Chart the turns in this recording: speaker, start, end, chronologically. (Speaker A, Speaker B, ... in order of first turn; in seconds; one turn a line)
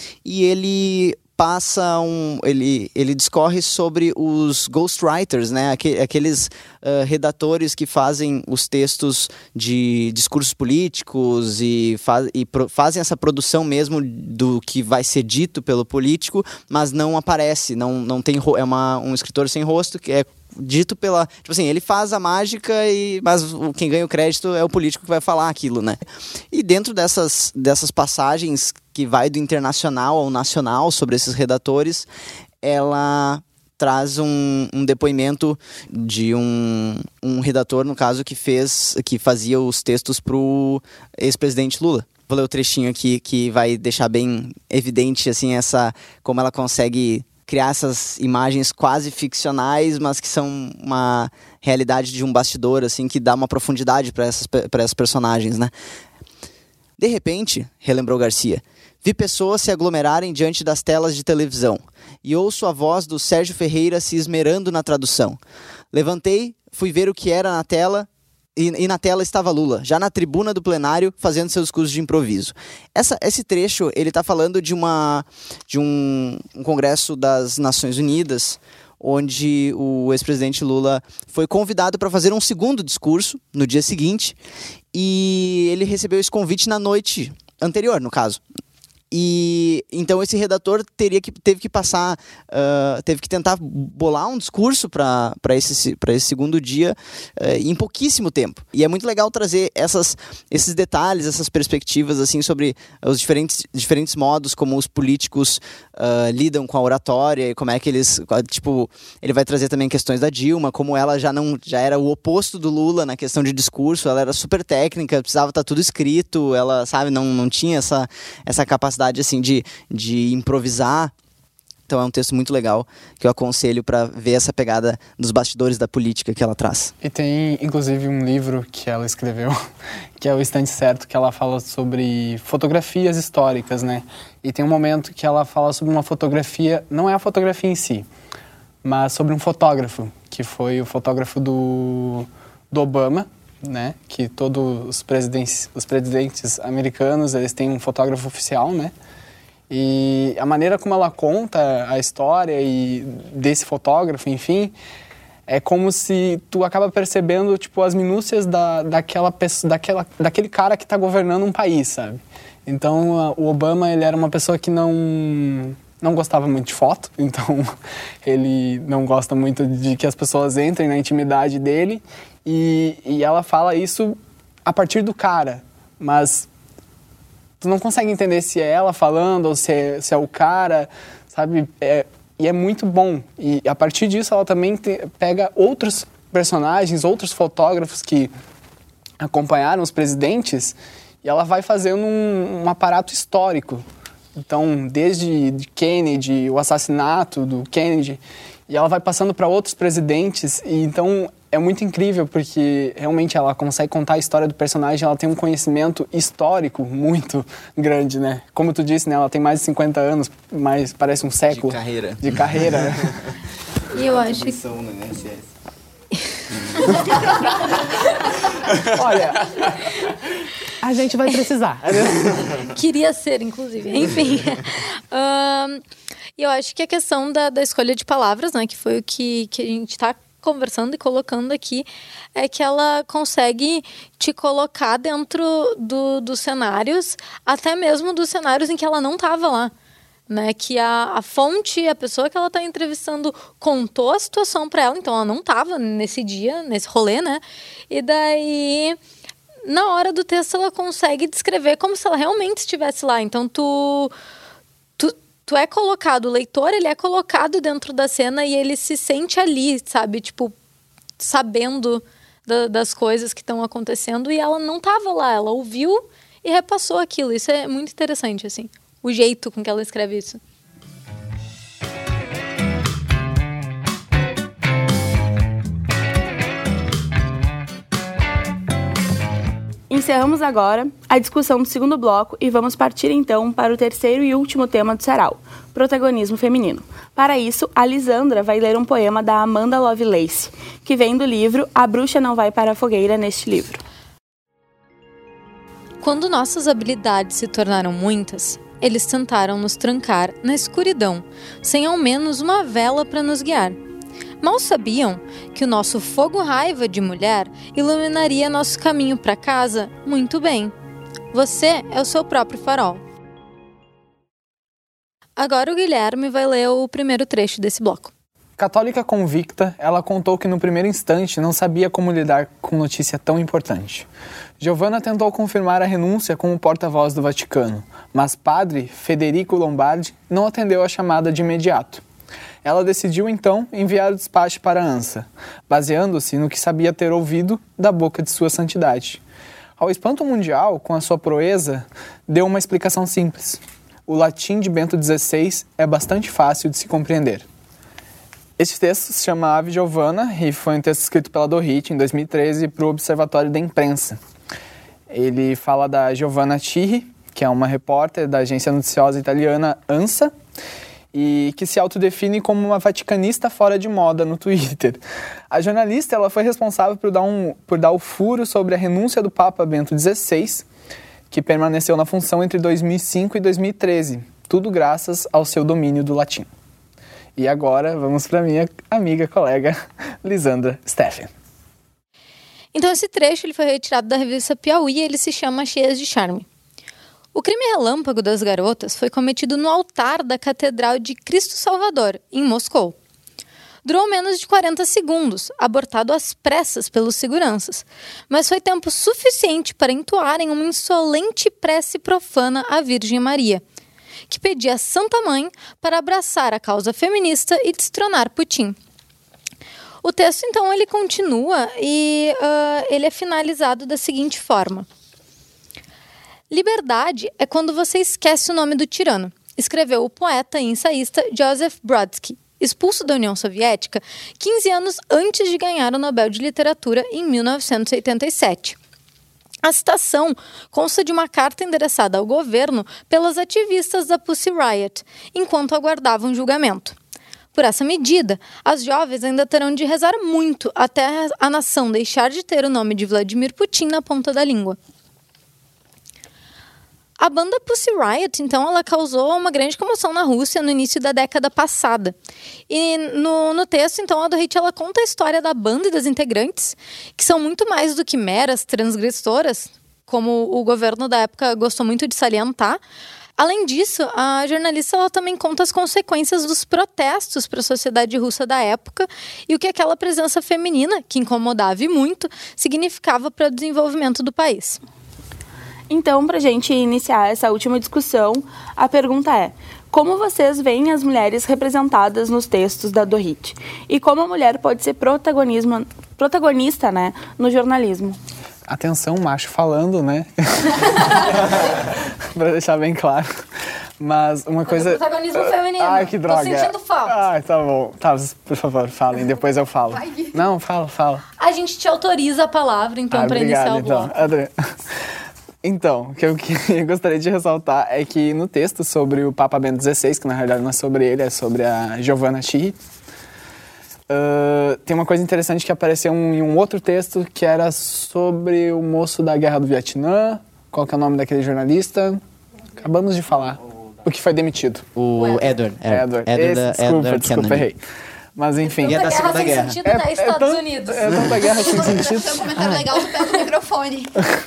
Speaker A: 0.2-26.0
Speaker A: 26.5-32.1
Speaker A: 32.6-55.7
Speaker A: 57.0-65.4
Speaker A: 65.9-84.4
Speaker A: 84.9-88.4
Speaker A: 89.1-121.1
Speaker A: 121.9-126.9
Speaker B: 127.0-129.6
Speaker B: 130.2-138.1
Speaker B: 138.8-148.9
Speaker B: 149.7-154.8
Speaker B: 155.5-167.7
Speaker B: 168.2-176.5
Speaker B: 177.6-188.3
Speaker B: 189.2-193.8
Speaker B: 194.4-213.2
Speaker A: 211.5-212.9
Speaker C: 213.9-214.6
Speaker A: 214.0-215.4
Speaker C: 216.8-218.4
Speaker B: 218.8-219.8
Speaker B: 220.8-222.3
Speaker C: 222.6-225.8
Speaker C: 226.4-239.7
Speaker C: 240.3-249.0
Speaker C: 249.7-254.1
Speaker C: 255.0-260.5
Speaker C: 261.2-270.4
Speaker D: 279.9-293.8
Speaker C: 296.0-303.8
Speaker C: 304.4-310.7
Speaker C: 311.3-313.0
Speaker C: 315.4-318.1
Speaker B: 318.6-324.1
Speaker B: 324.6-332.0
Speaker B: 332.6-339.2
Speaker B: 339.8-347.5
Speaker B: 348.6-354.2
Speaker B: 355.1-360.3
Speaker B: 361.1-370.7
Speaker B: 371.3-376.5
Speaker B: 377.4-381.3
Speaker C: 382.7-386.5
Speaker C: 387.4-392.9
Speaker C: 393.9-403.6
Speaker C: 404.3-408.8
Speaker C: 410.0-414.9
Speaker C: 416.5-428.8
Speaker C: 429.6-437.0
Speaker C: 437.5-444.8
Speaker C: 447.2-452.1
Speaker C: 452.7-462.8
Speaker C: 463.4-474.8
Speaker D: 475.9-488.2
Speaker B: 488.7-493.3
Speaker B: 494.0-501.2
Speaker C: 494.7-497.2
Speaker C: 501.4-504.1
Speaker B: 503.1-504.5
Speaker B: 505.6-512.8
Speaker B: 514.1-522.2
Speaker B: 522.8-524.9
Speaker A: 525.0-527.7
Speaker B: 525.9-527.8
Speaker B: 528.4-529.0
Speaker C: 528.7-531.2
Speaker A: 528.8-529.8
Speaker B: 529.8-532.9
Speaker E: 531.6-534.2